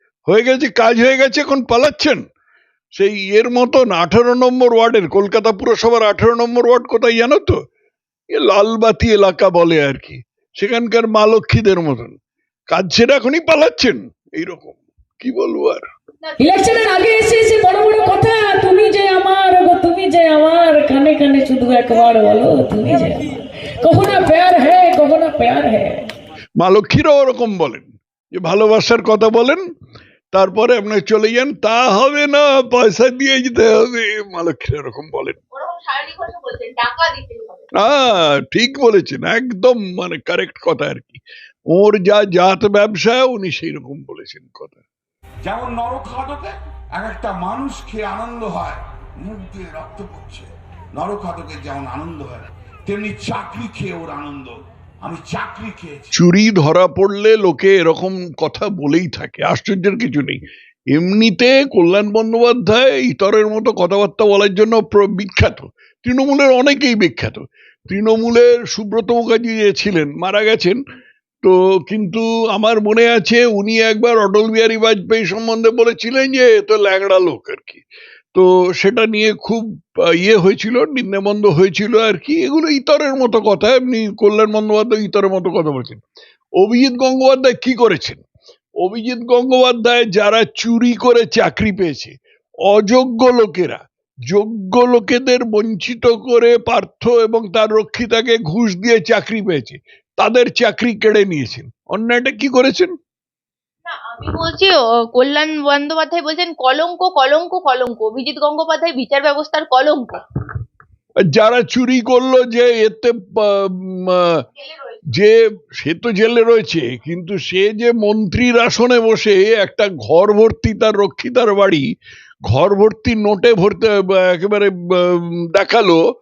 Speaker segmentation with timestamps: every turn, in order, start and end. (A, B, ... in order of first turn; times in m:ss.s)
0:00.3-0:02.2 A
0:03.0-0:07.6 A
0:08.3-0:12.2 A
0:12.7-0:15.8 A
0:16.2-0:16.8 B
0:16.4-0:23.3 C
0:23.8-0:26.1 C
0:26.6-0:29.6 A
0:30.3-0:35.4 A
0:35.5-0:37.7 B
0:37.8-0:44.8 A
0:45.4-0:56.1 D
0:56.1-1:00.4 A
1:00.9-1:10.8 A
1:11.4-1:17.8 A
1:18.3-1:19.6 A
1:20.2-1:26.0 A
1:26.6-1:28.2 A
1:28.8-1:32.2 A
1:32.7-1:42.9 A
1:44.2-1:44.7 B
1:45.2-1:49.3 B
1:45.7-1:48.1 D
1:48.7-1:50.2 D
1:51.3-1:54.4 A
1:55.8-2:01.8 A
2:02.5-2:06.0 A